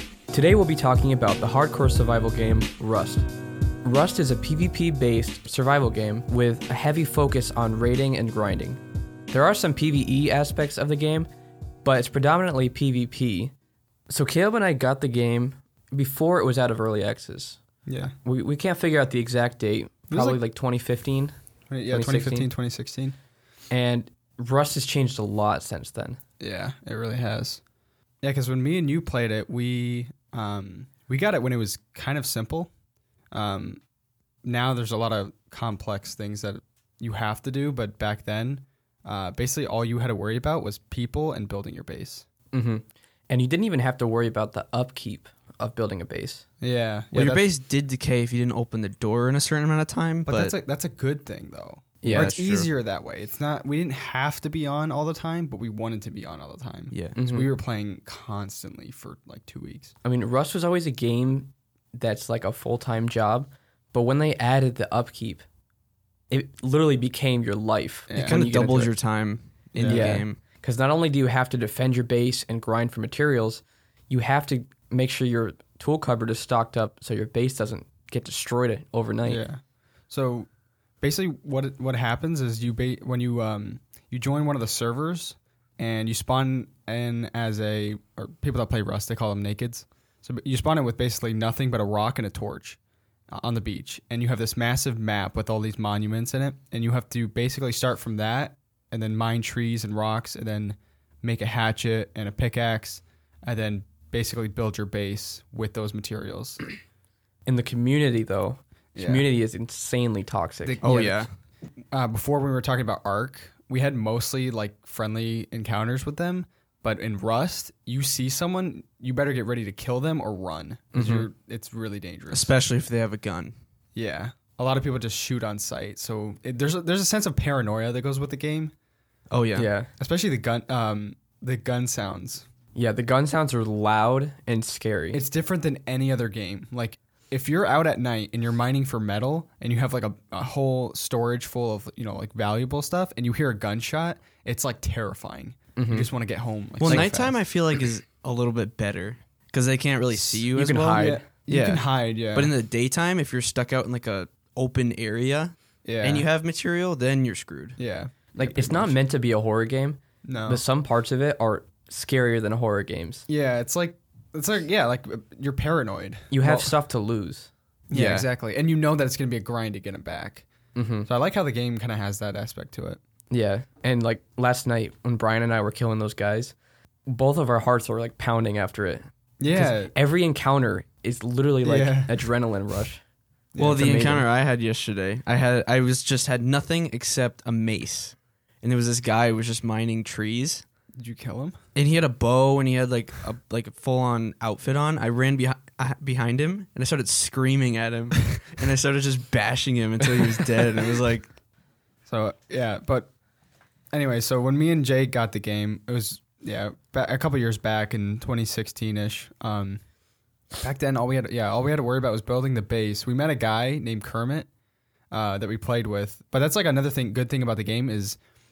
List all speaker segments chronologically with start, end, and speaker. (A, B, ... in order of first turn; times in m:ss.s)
0:00.3-0:03.3 A
0:03.8-0:08.8 A
0:09.3-0:11.3 A
0:11.8-0:13.5 A
0:14.1-0:17.6 A
0:17.9-0:18.1 B
0:18.2-0:21.3 A
0:20.1-0:20.4 B
0:21.7-0:23.2 B
0:21.9-0:22.5 A
0:23.7-0:26.2 A
0:26.4-0:27.6 B
0:28.2-0:32.7 B
0:33.3-0:33.8 B
0:34.4-0:42.3 B
0:42.5-0:46.4 A
0:46.6-0:47.4 B
0:47.1-0:50.5 C
0:50.3-0:59.9 B
0:52.0-0:52.4 A
0:52.0-0:52.7 C
0:57.2-0:57.5 A
1:00.0-1:05.4 A
1:06.3-1:08.9 A
1:08.1-1:08.4 B
1:08.2-1:10.4 C
1:09.7-1:10.2 B
1:09.8-1:19.4 A
1:19.3-1:20.5 B
1:21.0-1:32.8 B
1:33.3-1:46.6 B
1:47.5-1:51.2 A
1:49.0-1:49.3 B
1:50.6-1:51.1 B
1:50.8-1:51.3 C
1:51.9-2:02.5 B
2:00.9-2:01.3 A
2:02.3-2:03.6 C
2:04.0-2:08.7 B
2:09.3-2:09.7 C
2:09.6-2:09.9 A
2:10.0-2:12.5 B
2:12.8-2:15.2 A
2:15.1-2:27.4 B
2:25.8-2:26.1 A
2:26.8-2:37.8 C
2:30.3-2:32.5 B
2:30.5-2:31.2 A
2:35.8-2:36.3 B
2:37.8-2:39.0 B
2:38.4-2:43.2 A
2:40.2-2:40.6 B
2:43.3-2:46.8 B
2:46.3-2:48.3 A
2:47.9-2:50.5 B
2:50.8-2:51.1 A
2:51.1-2:53.0 B
2:53.3-2:56.6 A
2:57.1-3:03.0 A
2:59.4-2:59.9 B
3:01.6-3:02.3 B
3:03.5-3:03.9 B
3:03.6-3:10.6 C
3:03.7-3:04.3 A
3:11.0-3:11.6 B
3:11.8-3:21.3 C
3:22.1-3:23.1 B
3:23.9-3:29.8 B
3:30.6-3:34.5 B
3:35.1-3:38.2 B